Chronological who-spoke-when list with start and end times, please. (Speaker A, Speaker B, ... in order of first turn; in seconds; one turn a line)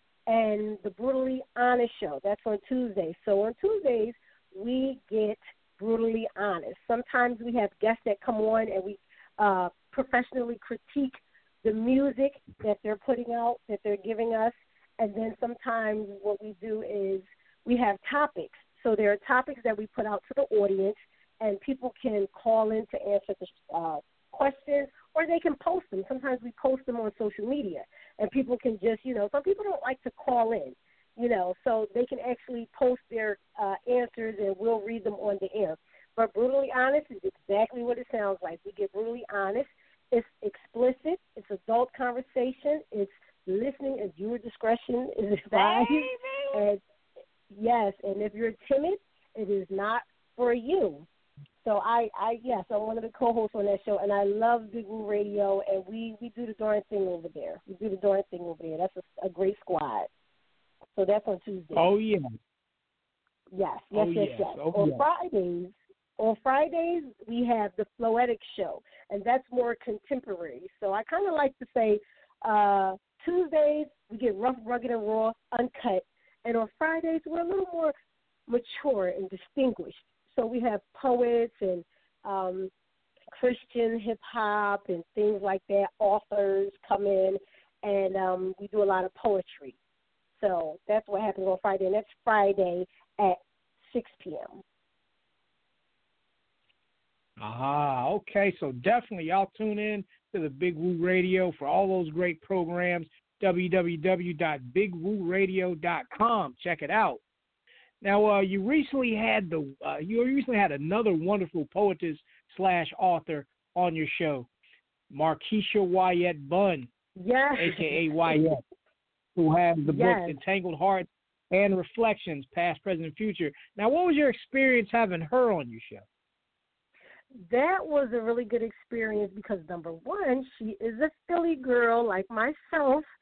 Speaker A: 0.3-46.8
Speaker B: 45.5-46.5
Speaker A: 47.5-51.1
Speaker A: 51.6-60.1
Speaker A: 61.0-61.9
Speaker B: 61.7-62.3
Speaker A: 63.5-77.9
Speaker B: 63.9-65.0
Speaker A: 78.5-82.7
Speaker A: 83.4-89.8
Speaker A: 90.3-94.6
Speaker B: 97.4-107.2
Speaker B: 108.0-114.5
Speaker B: 115.1-116.9
Speaker A: 117.2-118.3
Speaker B: 117.6-118.6
Speaker B: 119.4-126.0
Speaker A: 119.9-120.4
Speaker A: 127.4-133.1